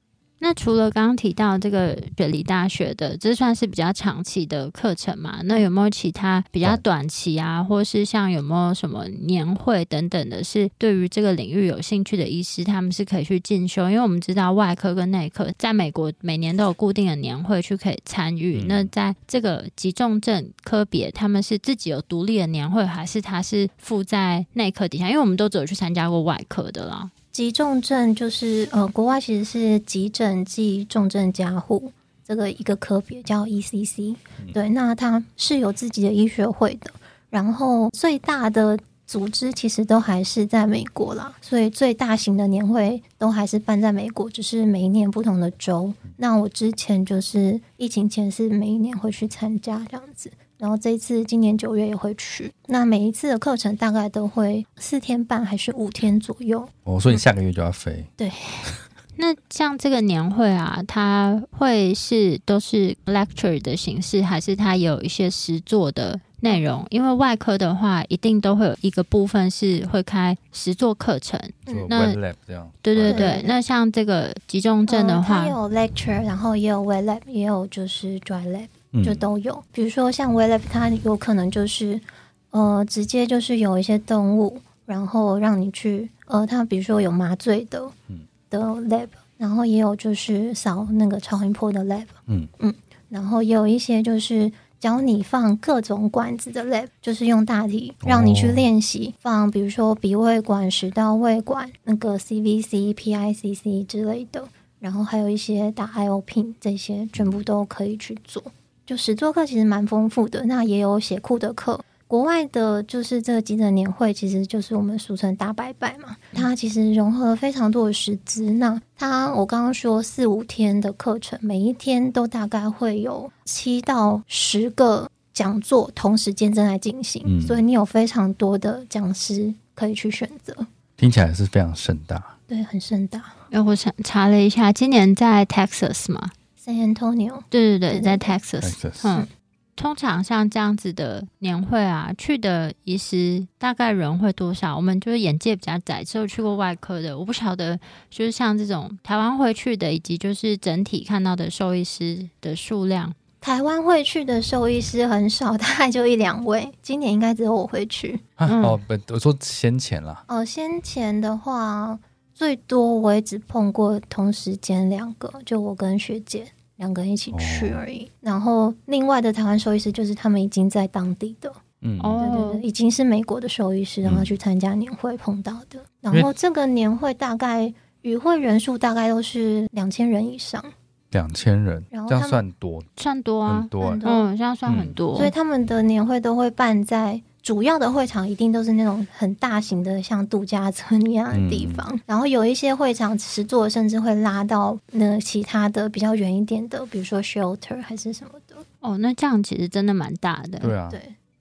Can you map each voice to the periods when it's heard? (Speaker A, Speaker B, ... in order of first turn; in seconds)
Speaker A: 0.4-27.1, 59.1-72.2, 72.8-75.5, 133.5-136.3, 137.5-153.2, 158.5-158.8, 172.0-172.6, 183.0-185.3, 198.8-200.7
Speaker B: 18.5-18.9, 56.9-58.1, 71.7-73.3, 78.9-79.3, 98.0-98.7, 107.2-107.4, 127.2-127.6, 131.0-132.3, 138.6-139.1, 158.4-160.2, 167.3-167.8, 171.8-172.4, 174.0-174.3, 181.1-182.9, 183.5-184.0, 184.7-185.0, 191.3-191.9, 200.6-201.0
Speaker C: 27.3-57.2, 58.2-58.7, 73.1-73.5, 74.9-87.9, 88.5-130.7, 132.5-133.3, 136.6-138.3, 153.4-158.2, 160.3-171.6, 172.2-180.7, 181.9-182.4, 183.8-184.3, 185.1-198.6, 200.9-201.1